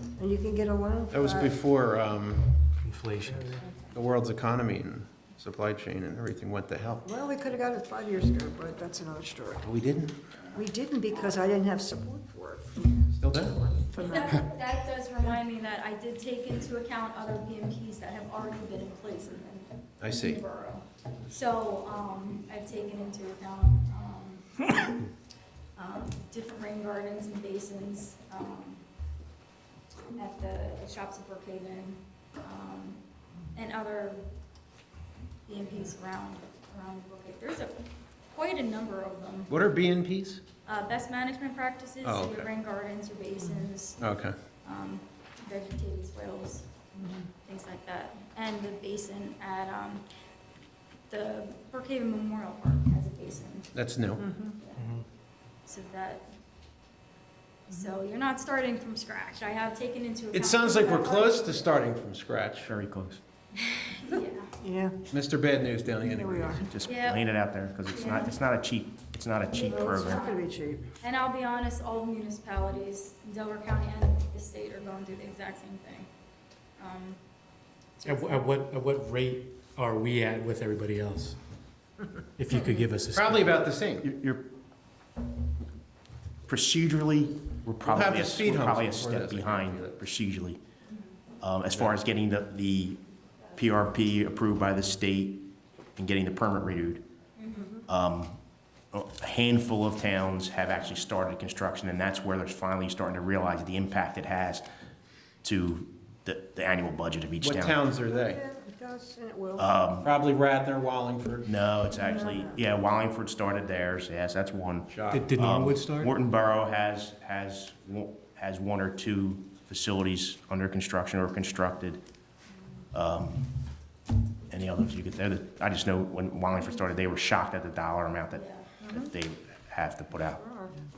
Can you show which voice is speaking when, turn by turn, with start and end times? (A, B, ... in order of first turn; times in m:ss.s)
0:00.2-0:01.6 A
0:01.1-0:02.6 B
0:02.8-0:03.6 C
0:03.9-0:07.1 B
0:07.0-0:09.7 A
0:09.6-0:10.2 B
0:10.5-0:14.4 A
0:13.2-0:13.6 B
0:14.0-0:25.0 D
0:20.0-0:20.4 B
0:25.8-0:28.8 D
0:30.2-0:33.0 D
0:33.6-0:34.2 D
0:35.5-0:37.8 D
0:38.3-0:39.5 D
0:39.5-0:40.4 B
0:40.7-0:44.0 D
0:42.0-0:42.5 B
0:44.0-0:44.3 B
0:44.6-0:46.7 D
0:47.0-0:47.3 A
0:47.4-0:50.0 D
0:51.1-0:53.7 D
0:53.8-0:54.2 B
0:54.2-0:54.6 A
0:54.6-0:55.0 D
0:55.7-0:56.2 D
0:57.7-1:01.8 D
1:00.3-1:02.7 B
1:02.7-1:03.2 E
1:03.6-1:04.5 D
1:04.6-1:05.0 A
1:05.1-1:06.7 B
1:06.0-1:06.7 A
1:06.7-1:10.3 E
1:06.8-1:07.2 D
1:07.9-1:08.4 D
1:09.5-1:10.4 D
1:09.6-1:10.8 A
1:11.0-1:16.1 D
1:16.8-1:17.2 D
1:18.0-1:18.5 D
1:18.0-1:21.4 C
1:22.4-1:23.6 C
1:22.5-1:22.9 D
1:23.1-1:24.1 B
1:24.0-1:24.5 E
1:26.5-1:30.6 E
1:27.8-1:30.0 B
1:30.9-1:31.1 D
1:31.4-1:33.0 E
1:33.5-1:37.0 E
1:37.4-1:37.7 D
1:37.9-1:38.4 E
1:38.9-1:44.6 E
1:45.4-1:47.8 E
1:47.4-1:48.4 B
1:48.1-1:49.7 A
1:49.6-1:50.1 E
1:50.0-1:51.5 B
1:51.4-2:02.0 E
1:51.9-1:52.6 A
1:54.9-1:55.4 B
1:55.1-1:56.1 C
2:02.9-2:03.5 E
2:04.5-2:10.4 E
2:08.3-2:08.7 D
2:08.8-2:09.1 A
2:10.3-2:10.8 A